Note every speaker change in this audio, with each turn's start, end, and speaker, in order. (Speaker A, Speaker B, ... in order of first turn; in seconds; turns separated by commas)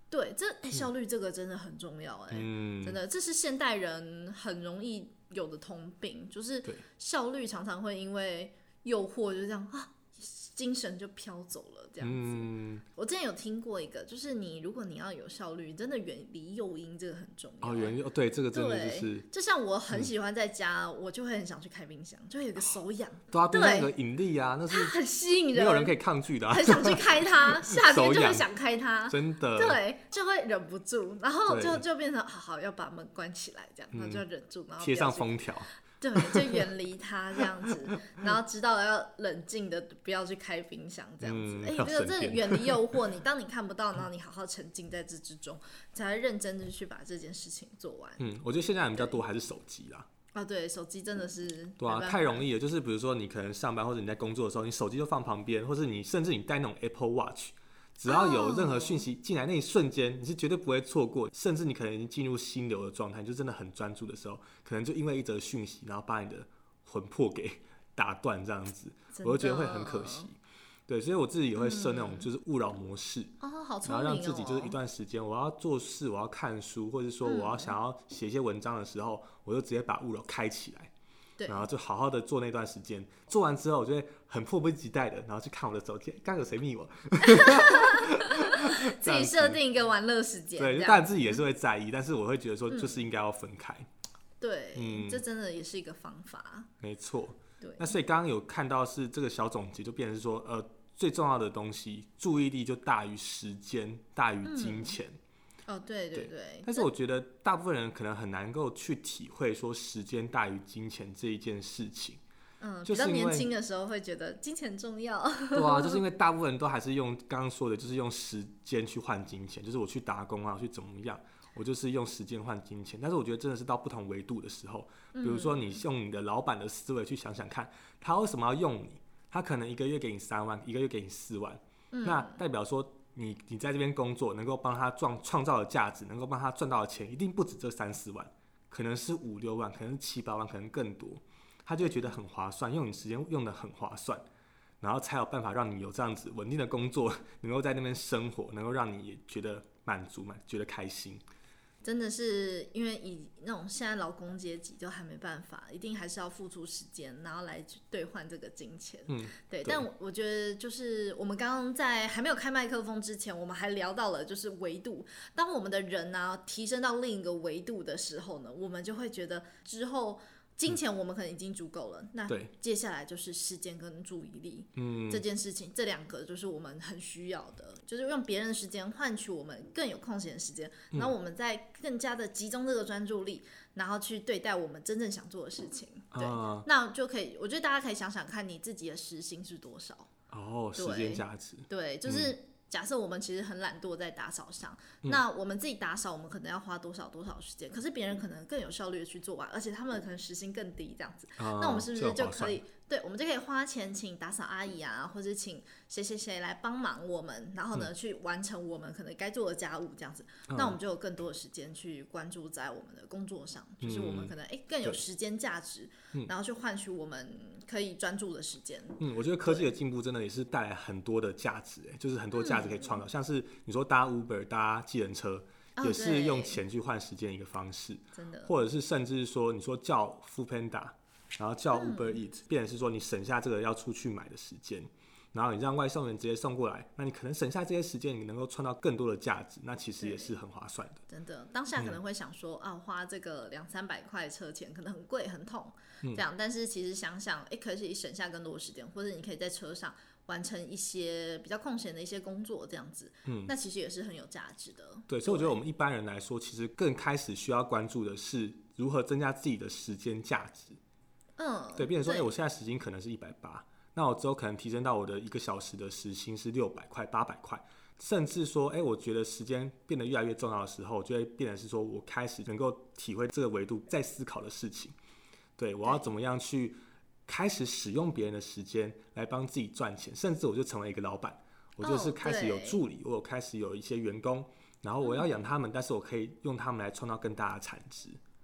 Speaker A: 0.1-18.0, Speaker B: 2.3-3.0, Speaker B: 12.0-12.8, Speaker B: 17.6-19.3, Speaker A: 18.5-23.9, Speaker B: 23.3-25.0, Speaker A: 24.7-26.0, Speaker B: 25.5-28.5, Speaker A: 26.5-35.5, Speaker B: 29.1-29.8, Speaker B: 31.5-31.8, Speaker B: 33.9-34.2, Speaker B: 34.8-36.7, Speaker A: 36.0-48.2, Speaker B: 37.4-37.9, Speaker B: 41.2-43.0, Speaker B: 48.2-50.1, Speaker A: 50.4-52.4, Speaker B: 51.8-80.9, Speaker A: 58.1-59.0, Speaker A: 69.1-70.3, Speaker A: 71.6-72.3, Speaker A: 73.4-74.8, Speaker A: 77.2-77.8, Speaker A: 81.4-81.7, Speaker B: 81.5-89.6, Speaker A: 87.2-91.4, Speaker B: 90.6-93.9, Speaker A: 92.7-93.1, Speaker A: 94.4-96.7, Speaker B: 94.8-95.2, Speaker B: 96.8-105.2, Speaker A: 97.6-98.0, Speaker A: 104.4-105.0, Speaker A: 105.7-106.9, Speaker B: 106.1-112.2, Speaker A: 112.6-116.0, Speaker B: 112.9-113.5, Speaker B: 115.5-144.2, Speaker A: 125.1-125.8, Speaker A: 131.9-132.4, Speaker B: 144.8-151.2, Speaker A: 151.8-190.1, Speaker B: 159.1-159.8, Speaker B: 174.8-175.2, Speaker B: 186.1-186.7, Speaker B: 190.3-192.3, Speaker A: 190.8-219.7, Speaker B: 201.4-202.6, Speaker B: 210.5-210.8, Speaker B: 213.8-214.3, Speaker B: 219.0-241.0, Speaker A: 222.3-223.0, Speaker A: 225.8-226.6, Speaker A: 228.2-228.5, Speaker A: 231.7-232.2, Speaker A: 240.0-240.4, Speaker A: 241.1-255.6, Speaker B: 253.3-253.5, Speaker B: 255.1-260.8, Speaker A: 261.4-262.3, Speaker B: 261.8-274.9, Speaker B: 275.6-288.2, Speaker A: 281.8-282.8, Speaker A: 285.0-285.4